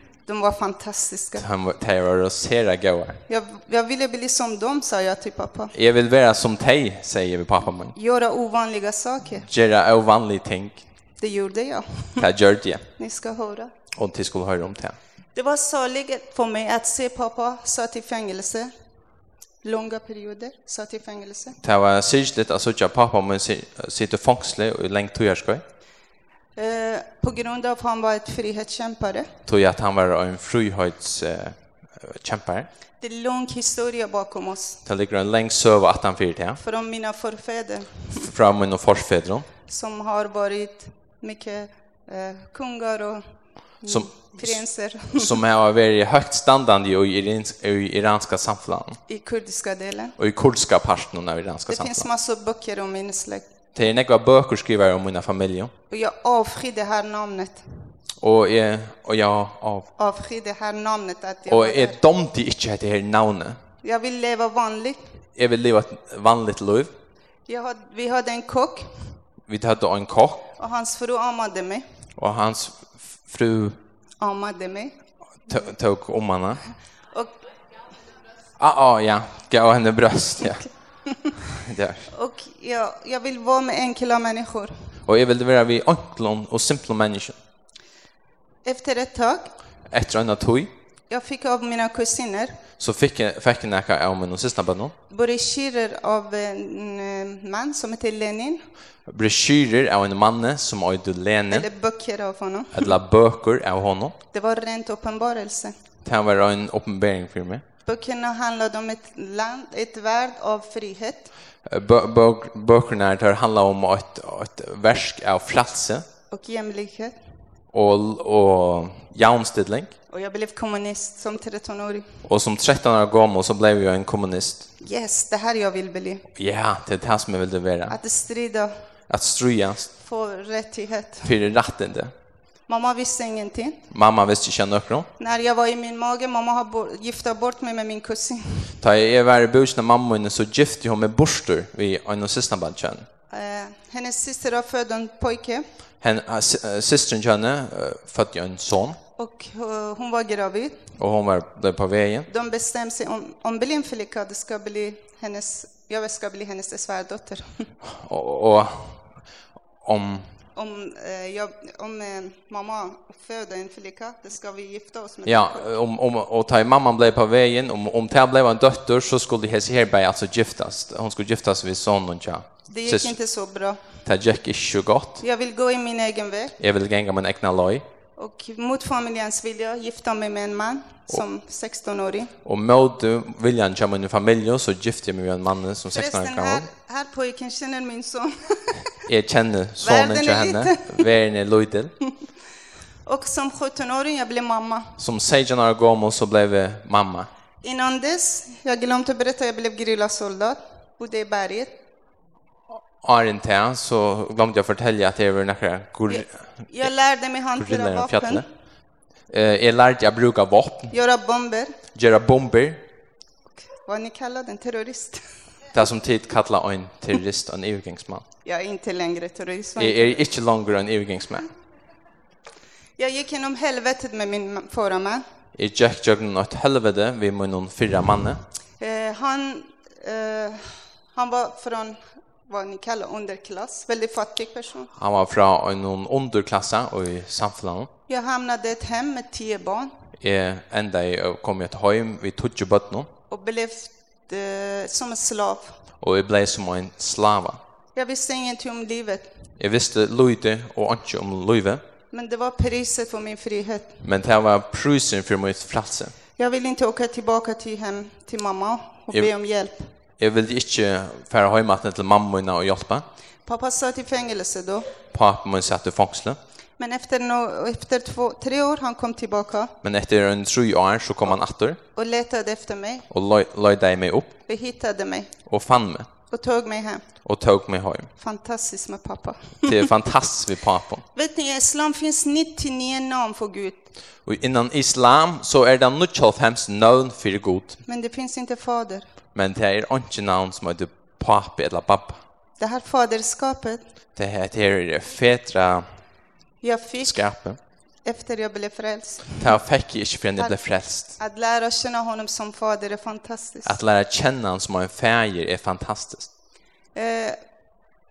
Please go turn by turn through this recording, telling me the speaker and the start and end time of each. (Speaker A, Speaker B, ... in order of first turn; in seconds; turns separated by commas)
Speaker A: 0.2-1.5, Speaker B: 1.4-3.2, Speaker A: 3.3-5.7, Speaker B: 5.7-8.0, Speaker A: 8.0-9.5, Speaker B: 9.4-10.8, Speaker A: 11.2-12.3, Speaker B: 12.2-12.9, Speaker A: 13.0-13.7, Speaker B: 13.9-15.0, Speaker A: 15.3-18.7, Speaker A: 19.6-21.6, Speaker B: 21.6-25.6, Speaker A: 26.6-29.3, Speaker B: 29.5-32.7, Speaker A: 33.0-34.8, Speaker B: 34.9-36.6, Speaker A: 36.6-38.3, Speaker B: 38.1-39.5, Speaker A: 39.7-43.2, Speaker A: 43.8-45.4, Speaker B: 43.9-49.0, Speaker A: 49.1-50.2, Speaker B: 50.2-52.1, Speaker A: 51.7-53.5, Speaker B: 53.8-55.7, Speaker A: 55.9-57.6, Speaker B: 58.2-59.9, Speaker A: 60.0-62.0, Speaker B: 61.5-63.6, Speaker A: 63.8-65.0, Speaker B: 65.4-66.9, Speaker A: 67.5-69.2, Speaker B: 69.5-70.5, Speaker A: 70.6-71.9, Speaker B: 72.2-73.8, Speaker A: 74.2-75.0, Speaker B: 75.5-76.6, Speaker B: 78.6-80.7, Speaker A: 81.1-81.3, Speaker B: 81.5-82.1, Speaker A: 82.1-84.8, Speaker B: 85.0-87.3, Speaker A: 88.7-89.5, Speaker B: 89.9-90.7, Speaker A: 91.1-92.6, Speaker B: 92.8-94.9, Speaker A: 95.1-98.7, Speaker B: 99.1-101.7, Speaker A: 101.5-102.9, Speaker B: 102.7-104.2, Speaker A: 104.3-105.8, Speaker B: 106.0-107.6, Speaker A: 107.8-111.3, Speaker B: 111.7-116.1, Speaker A: 116.3-117.2, Speaker B: 117.7-119.9, Speaker A: 120.1-122.2, Speaker B: 122.3-124.7, Speaker A: 124.8-126.3, Speaker B: 126.3-128.0, Speaker A: 127.9-128.8, Speaker B: 129.1-129.9, Speaker A: 130.0-131.3, Speaker B: 131.2-132.1, Speaker A: 132.7-133.8, Speaker B: 133.9-135.1, Speaker A: 135.2-138.8, Speaker B: 138.8-143.1, Speaker A: 143.3-145.7, Speaker B: 146.0-149.0, Speaker A: 149.2-150.9, Speaker B: 151.0-152.3, Speaker A: 152.3-157.7, Speaker B: 157.8-159.1, Speaker B: 159.8-160.3, Speaker A: 160.6-165.7, Speaker B: 165.2-173.2, Speaker A: 172.7-173.8, Speaker B: 174.1-175.2, Speaker A: 175.2-176.6, Speaker B: 176.6-177.8, Speaker A: 178.2-182.3, Speaker B: 182.4-186.7, Speaker A: 185.9-189.0, Speaker B: 189.1-191.9, Speaker A: 189.8-191.1, Speaker A: 193.1-195.0, Speaker B: 195.0-197.3, Speaker A: 197.6-201.7, Speaker B: 203.0-206.9, Speaker A: 206.1-208.4, Speaker B: 207.6-208.4, Speaker B: 209.3-210.9, Speaker A: 210.9-211.8, Speaker B: 211.9-212.8, Speaker A: 213.7-215.2, Speaker B: 215.7-218.2, Speaker A: 218.4-220.2, Speaker B: 219.8-221.5, Speaker A: 223.0-225.2, Speaker B: 225.6-228.4, Speaker A: 228.8-234.9, Speaker B: 235.0-237.9, Speaker A: 238.1-239.9, Speaker B: 240.2-243.1, Speaker A: 243.3-245.8, Speaker B: 246.0-247.6, Speaker A: 247.9-249.3, Speaker B: 249.6-251.8, Speaker A: 252.1-254.0, Speaker B: 254.0-256.1, Speaker A: 256.4-259.9, Speaker B: 260.2-263.1, Speaker A: 263.5-264.9, Speaker B: 265.1-266.4, Speaker A: 266.8-269.7, Speaker B: 269.8-271.8, Speaker A: 271.9-273.1, Speaker B: 273.1-274.3, Speaker A: 274.5-275.3, Speaker B: 275.5-276.1, Speaker A: 276.3-277.1, Speaker B: 277.2-278.1, Speaker A: 278.2-279.9, Speaker B: 279.7-281.1, Speaker A: 281.1-283.9, Speaker B: 284.2-287.8, Speaker A: 287.9-289.1, Speaker B: 289.4-292.2, Speaker A: 292.6-293.8, Speaker B: 294.2-295.9, Speaker A: 296.6-297.2, Speaker B: 297.0-297.6, Speaker A: 298.1-299.6, Speaker B: 299.4-301.1, Speaker A: 301.2-303.8, Speaker B: 303.6-306.3, Speaker A: 306.9-307.4